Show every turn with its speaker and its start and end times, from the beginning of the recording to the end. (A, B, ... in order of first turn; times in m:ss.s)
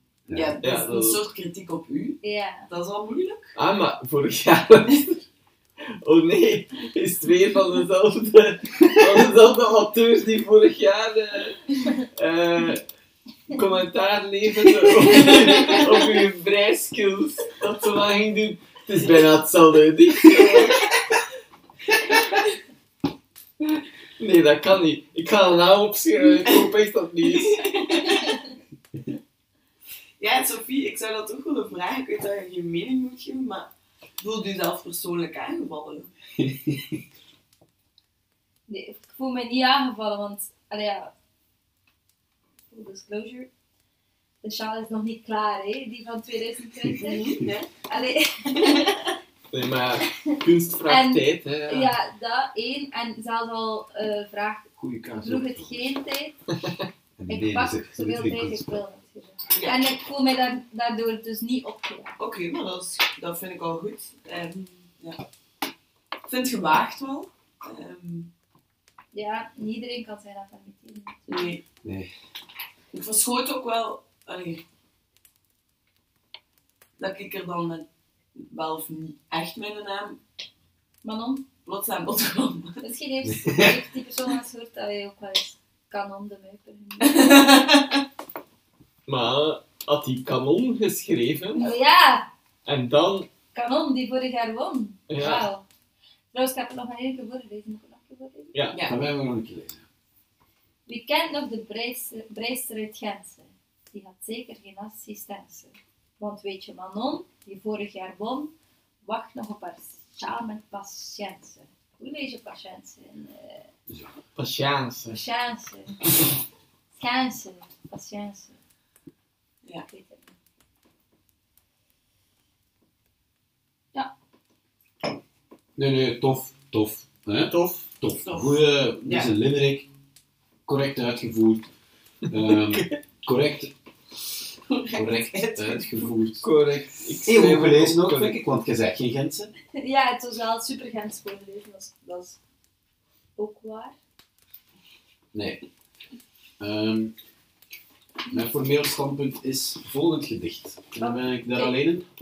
0:00.3-0:00.6 A
0:00.3-0:03.5 B
0:00.6-0:01.2 C
0:02.2-0:02.7 D
0:03.6-0:05.2 C
0:06.0-0:12.8 C
0:13.5-0:21.0 C
0:20.4-0:20.7 B
0:21.9-0:22.4 B
0:24.2-0:27.8 C
0:26.4-0:26.7 B
0:27.2-0:28.4 B
0:30.2-0:36.1 B
0:36.4-0:36.8 A
0:38.7-0:41.1 D
0:42.7-0:43.5 D
0:44.4-0:49.1 D
0:47.0-0:47.7 B
0:49.5-0:52.0 C
0:50.3-0:54.7 D
0:54.8-0:55.9 A
0:55.2-0:56.4 D
0:57.2-0:58.8 A
0:57.3-1:02.2 D
0:59.5-0:59.8 B
1:02.2-1:05.2 B
1:06.3-1:08.3 B
1:09.1-1:11.5 D
1:11.3-1:11.6 B
1:11.8-1:12.1 A
1:12.9-1:14.6 B
1:17.0-1:20.2 B
1:21.0-1:21.4 D
1:21.6-1:22.8 B
1:22.8-1:27.6 D
1:23.3-1:23.7 A
1:27.0-1:28.0 B
1:29.1-1:31.8 C
1:31.6-1:32.3 D
1:32.7-1:33.3 C
1:33.5-1:35.6 D
1:35.1-1:35.5 C
1:36.3-1:38.6 D
1:38.5-1:38.8 C
1:38.7-1:39.0 B
1:38.8-1:39.8 A
1:40.9-1:53.7 D
1:54.4-1:55.2 C
1:55.1-1:56.0 D
1:57.0-1:58.6 D
1:59.8-2:00.3 D
2:05.8-2:09.9 A
2:07.5-2:07.9 C
2:08.2-2:09.3 B
2:10.7-2:11.7 A
2:12.3-2:13.7 A
2:12.5-2:12.9 C
2:14.7-2:16.2 B
2:14.9-2:16.4 A
2:16.4-2:18.5 C
2:17.2-2:19.5 A
2:19.8-2:22.4 D
2:23.4-2:24.0 D
2:25.3-2:25.6 A
2:26.6-2:27.2 A
2:28.3-2:32.1 A
2:31.0-2:31.8 D